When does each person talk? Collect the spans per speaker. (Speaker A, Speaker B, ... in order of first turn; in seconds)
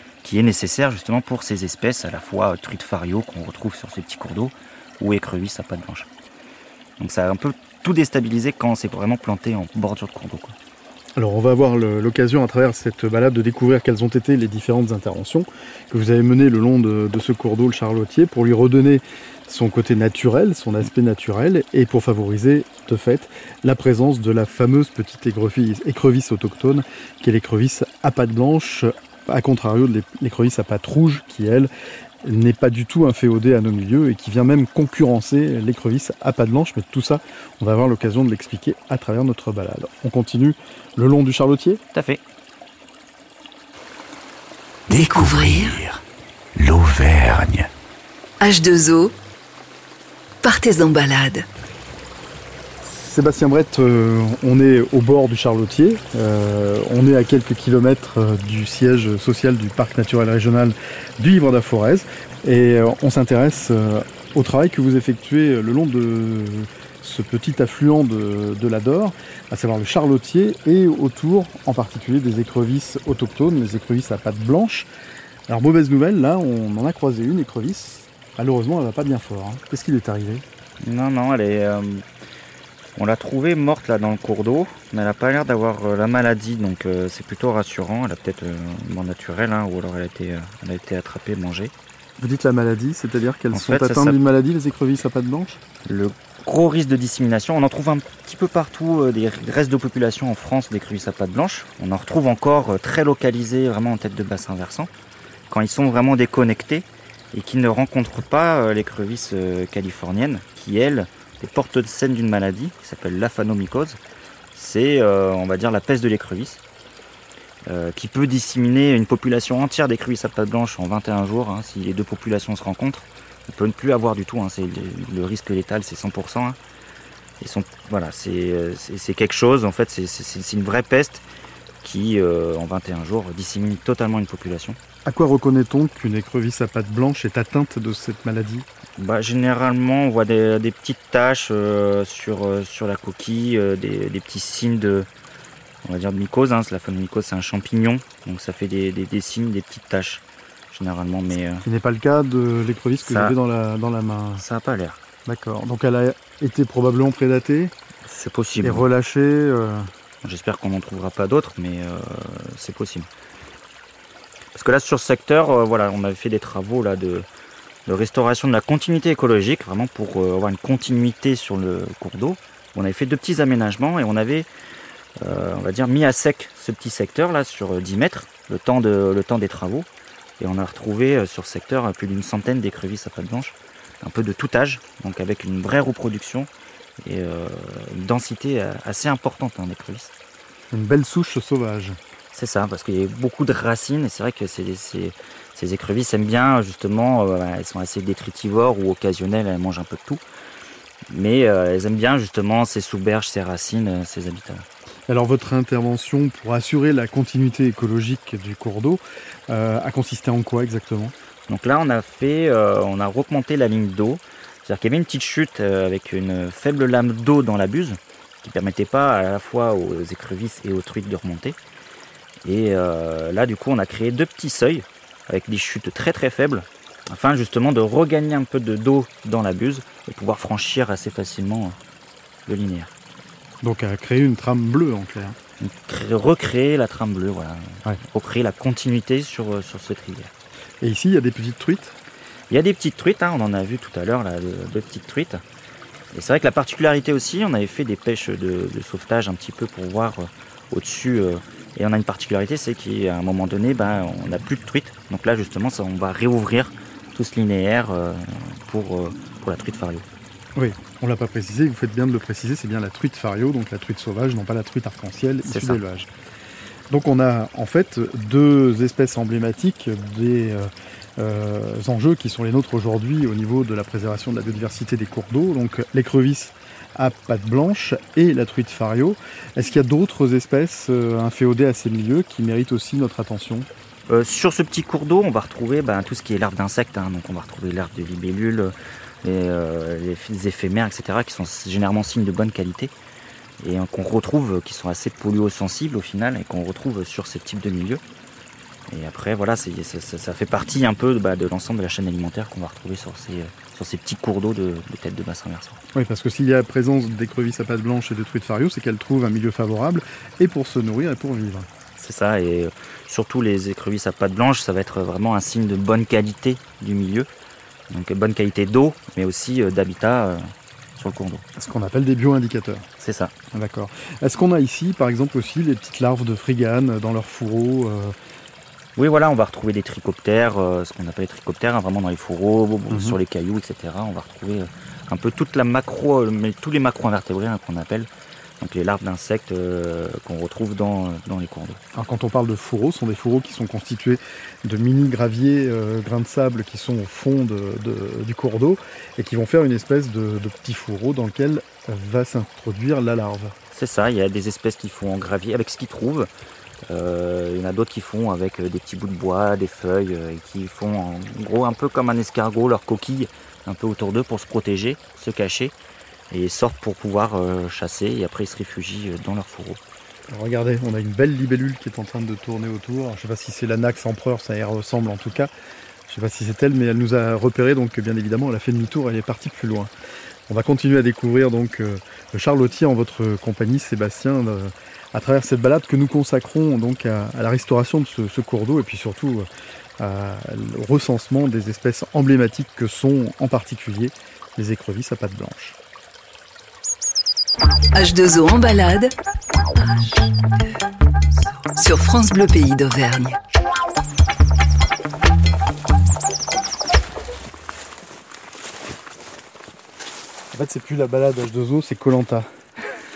Speaker A: 0.2-6.1, 7.0-10.5, 41.9-42.2, 80.8-82.0, 83.0-91.7, 93.5-94.2, 95.8-104.9, 105.5-114.0, 114.5-116.6, 117.7-126.6, 127.4-131.2, 131.8-134.8, 139.0-145.1, 145.8-151.6, 153.0-153.3, 154.4-155.0, 158.1-158.8, 160.2-163.1, 164.5-167.2, 167.8-174.5, 175.2-179.9, 180.4-186.5, 187.0-190.1, 192.3-200.2, 201.1-204.7, 211.5-221.6, 222.4-231.8, 232.4-232.9, 235.6-240.3, 242.5-245.4, 246.1-260.0, 265.4-265.8, 284.1-292.9, 293.6-298.0, 298.9-305.8, 312.0-317.3, 317.9-321.4, 323.0-323.3, 328.9-338.1, 338.6-341.8, 353.7-356.3, 356.9-365.7, 366.3-369.8
Speaker B: 11.2-31.7, 32.2-41.8, 52.8-74.9, 75.5-80.4, 92.2-95.6, 135.1-138.7, 151.6-154.4, 155.2-157.7, 158.6-159.9, 190.7-192.0, 205.1-211.1, 233.6-235.4, 240.8-242.0, 260.5-266.1, 266.9-283.7, 305.9-311.7, 321.6-322.9, 323.5-328.1, 332.9-333.2, 341.9-353.6, 370.3-375.5, 376.1-379.9, 380.5-389.5, 390.0-395.8, 410.5-412.5
Speaker C: 44.9-46.0, 46.5-47.7
Speaker D: 44.9-45.8, 48.4-49.1, 50.4-51.5, 397.9-399.1, 399.8-400.3, 401.7-403.4